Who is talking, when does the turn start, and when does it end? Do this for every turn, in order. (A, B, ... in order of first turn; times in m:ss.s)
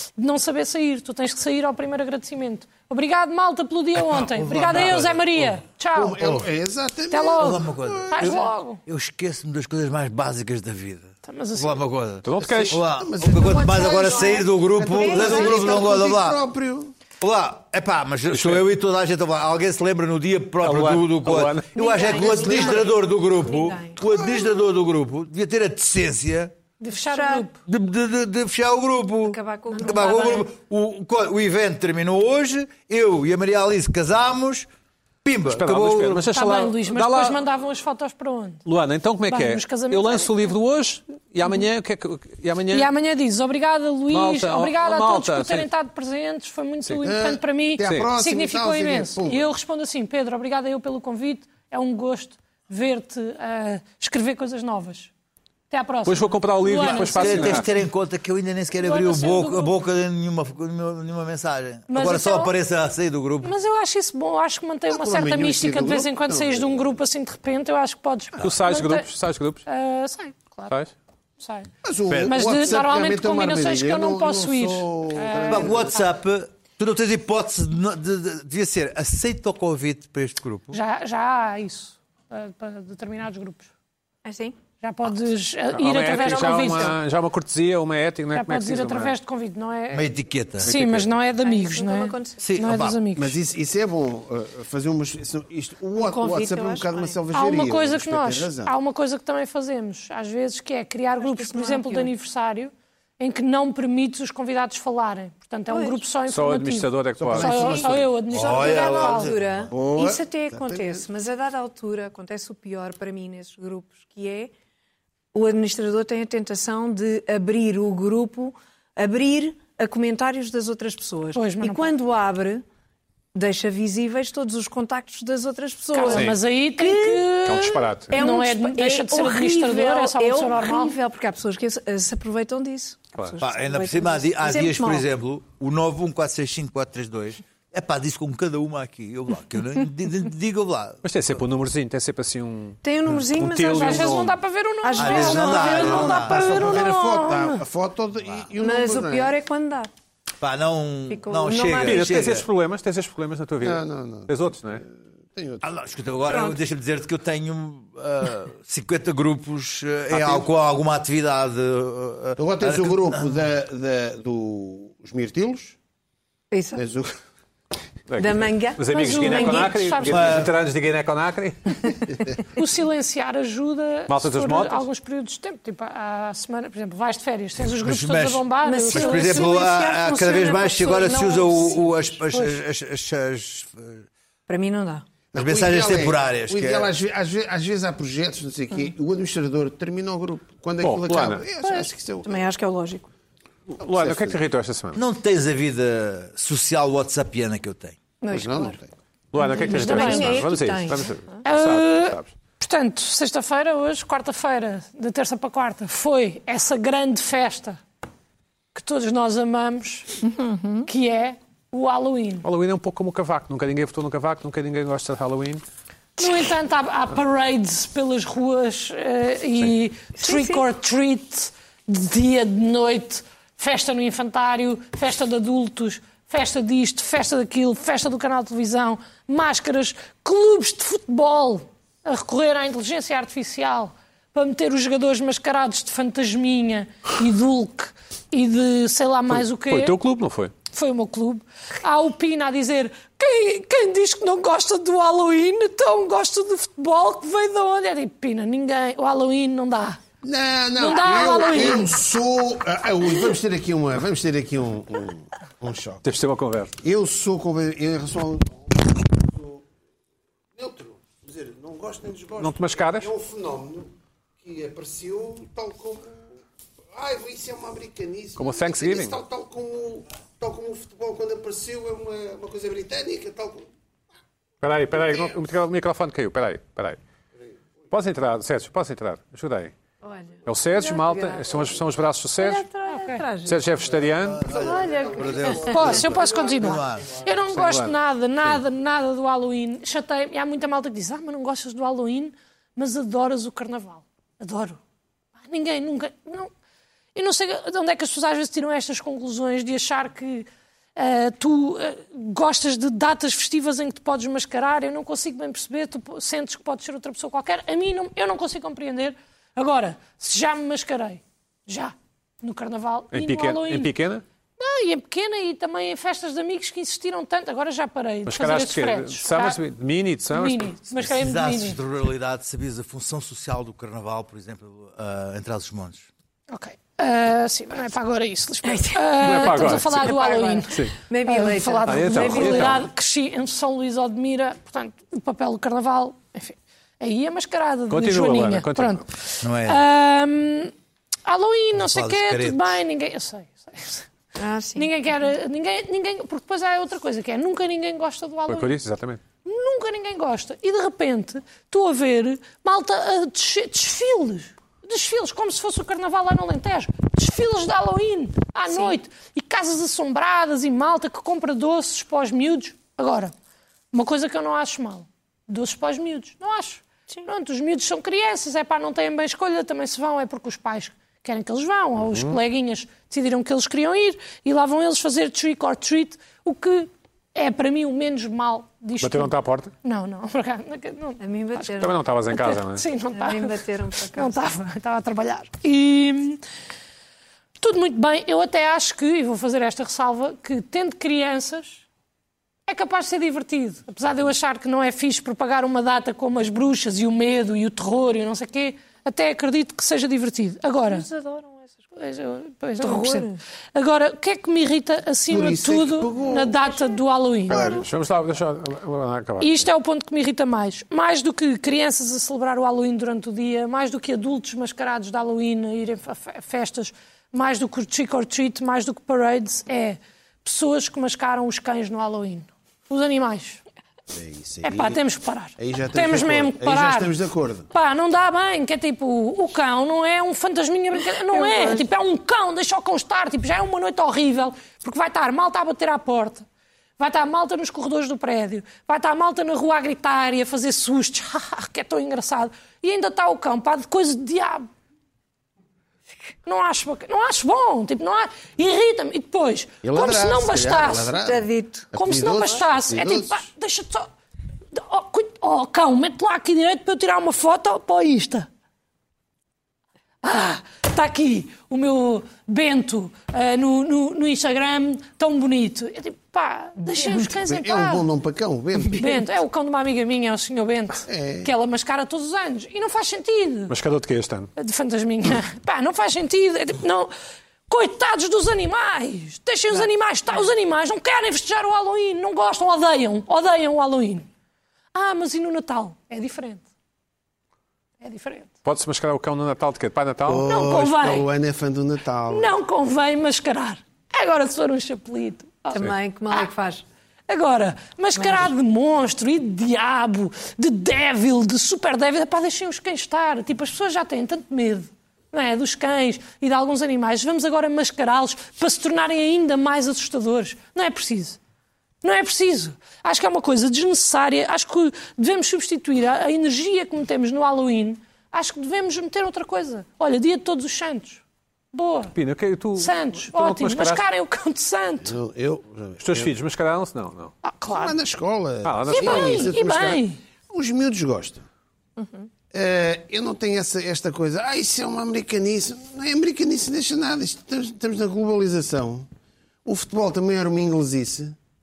0:00.2-0:06.2 A
0:04.1-0:05.6 B
0:05.9-0:08.4 C
0:07.1-0:08.8 A
0:07.4-0:16.4 B
0:11.2-0:11.8 A
0:12.2-0:12.8 D
0:12.4-0:16.9 C
0:13.3-0:15.9 E
0:17.2-0:26.6 B
0:18.3-0:18.6 D
0:20.6-0:22.6 D
0:21.7-0:24.2 E
0:26.8-0:27.6 A
0:26.9-0:27.5 E
0:27.6-0:34.7 B
0:29.2-0:30.5 E
0:35.2-0:36.3 B
0:35.5-0:37.4 D
0:36.2-0:38.6 A
0:38.6-0:42.9 D
0:39.3-0:40.5 A
0:42.7-0:55.1 A
0:44.1-0:45.7 D
0:47.0-0:49.5 C
0:47.8-0:48.1 D
0:55.7-0:57.7 A
0:56.1-0:57.7 D
0:56.8-1:03.5 B
0:58.8-0:59.7 A
1:01.9-1:02.5 A
1:03.4-1:09.1 A
1:04.9-1:07.0 C
1:08.4-1:09.6 D
1:09.6-1:10.7 A
1:11.4-1:11.7 A
1:11.8-1:16.0 C
1:12.2-1:15.8 A
1:15.5-1:20.8 B
1:20.7-1:23.7 A
1:24.2-1:24.6 E
1:24.8-1:27.0 A
1:25.7-1:29.2 D
1:26.2-1:26.9 E
1:28.3-1:30.1 A
1:29.9-1:30.7 B
1:30.6-1:33.4 A
1:30.6-1:31.1 D
1:31.4-1:32.4 E
1:32.4-1:33.0 B
1:33.1-1:38.7 C
1:36.0-1:37.2 E
1:37.3-1:49.3 A
1:41.2-1:42.1 E
1:45.7-1:46.0 E
1:46.3-1:48.1 D
1:47.2-1:48.8 C
1:47.4-1:47.8 E
1:48.3-1:49.7 B
1:48.4-1:54.5 E
1:49.7-1:51.0 C
1:55.3-2:02.6 E
2:01.4-2:01.9 A
2:03.4-2:15.1 E
2:05.9-2:10.9 A
2:06.1-2:06.4 D
2:07.4-2:08.2 D
2:13.4-2:21.0 B
2:21.0-2:24.4 D
2:22.8-2:24.3 E
2:23.7-2:27.6 A
2:24.8-2:26.5 E
2:25.0-2:26.8 B
2:26.0-2:29.4 C
2:28.6-2:29.9 E
2:30.4-2:32.4 B
2:31.1-2:32.2 E
2:31.8-2:34.8 D
2:33.6-2:35.7 C
2:35.6-2:43.4 B
2:36.3-2:36.6 E
2:40.1-2:40.4 D
2:42.4-2:45.8 C
2:46.5-2:46.8 E
2:46.7-2:47.1 C
2:48.1-2:51.9 D
2:48.2-2:49.8 E
2:48.9-2:50.5 A
2:50.1-2:50.5 B
2:52.6-2:59.6 A
2:54.1-2:54.9 D
2:57.8-3:04.0 B
2:58.6-3:02.6 E
3:04.5-3:05.1 E
3:05.3-3:12.4 C
3:05.4-3:06.9 B
3:10.8-3:11.4 D
3:11.6-3:13.1 E
3:13.7-3:14.4 C
3:13.8-3:15.0 D
3:14.9-3:18.0 B
3:18.2-3:18.8 E
3:18.3-3:18.9 C
3:19.3-3:22.3 D
3:19.4-3:21.1 E
3:19.5-3:20.5 A
3:21.4-3:27.8 A
3:28.7-3:30.1 A
3:30.2-3:30.9 E
3:30.9-3:32.4 A
3:32.4-3:35.6 D
3:36.2-4:00.0 A
3:40.2-3:40.6 E
3:59.3-4:00.5 D
4:00.7-4:10.0 A
4:10.2-4:16.0 C
4:10.8-4:12.0 A
4:16.0-4:16.7 D
4:16.8-4:19.6 C
4:20.6-4:26.4 C
4:22.4-4:23.1 D
4:26.9-4:33.7 C
4:28.4-4:29.2 D
4:34.6-4:37.0 D
4:35.1-4:35.3 C
4:37.9-4:39.7 D
4:40.0-4:41.7 E
4:40.4-4:42.6 D
4:42.4-4:43.6 E
4:42.9-4:43.2 A
4:43.4-4:44.5 D
4:44.3-4:47.2 B
4:44.4-4:45.5 C
4:44.4-4:46.0 E
4:45.6-4:54.8 A
4:47.5-4:48.6 D
4:55.4-4:56.5 A
4:57.1-5:13.9 A
5:13.1-5:14.2 D
5:14.6-5:19.6 A
5:18.2-5:20.7 D
5:20.3-5:21.8 A
5:21.0-5:26.1 B
5:26.5-5:40.7 A
5:28.6-5:32.8 E
5:29.2-5:30.1 D
5:30.7-5:31.0 D
5:31.8-5:32.9 D
5:37.9-5:39.0 D
5:39.4-5:39.8 B
5:41.2-5:44.1 A
5:41.8-5:42.8 B
5:44.4-5:44.9 E
5:44.8-5:48.7 A
5:48.5-5:49.2 D
5:49.4-6:03.3 A
5:58.7-5:59.0 E
6:03.9-6:23.6 A
6:12.0-6:12.4 D
6:19.0-6:19.7 D
6:21.2-6:22.0 E
6:21.8-6:22.8 D
6:23.1-6:24.4 E
6:24.1-6:26.4 A
6:27.6-6:31.8 A
6:32.7-6:41.1 A
6:40.9-6:41.8 E
6:42.0-6:47.7 A
6:42.8-6:43.4 E
6:45.3-6:46.7 C
6:47.5-6:47.8 C
6:47.5-6:49.6 D
6:49.4-7:03.6 A
7:04.1-7:05.0 C
7:04.6-7:07.1 A
7:05.6-7:07.7 C
7:07.7-7:16.4 A
7:11.3-7:11.8 E
7:17.0-7:24.7 A
7:26.4-7:31.1 A
7:29.8-7:33.4 C
7:31.2-7:32.6 E
7:32.0-7:34.1 A
7:34.7-7:38.5 A
7:40.2-7:48.1 A
7:47.4-7:49.2 C
7:48.9-7:53.7 A
7:51.1-7:51.5 C
7:53.7-7:54.5 D
7:54.6-7:57.1 A
7:57.7-8:04.3 A
8:04.9-8:06.6 A
8:08.0-8:08.5 A
8:08.6-8:10.4 D
8:10.3-8:12.5 C
8:10.4-8:11.2 A
8:12.3-8:16.5 A
8:15.7-8:16.8 E
8:17.3-8:31.4 A
8:18.2-8:18.5 E
8:32.0-8:41.2 A
8:41.7-8:42.1 A
8:42.1-8:44.0 D
8:42.8-8:45.1 A
8:45.0-8:46.3 C
8:46.0-8:47.3 D
8:47.4-8:47.9 A
8:47.7-8:51.4 C
8:48.6-8:49.5 D
8:48.9-8:50.2 A
8:52.5-8:59.1 C
8:59.6-9:01.4 C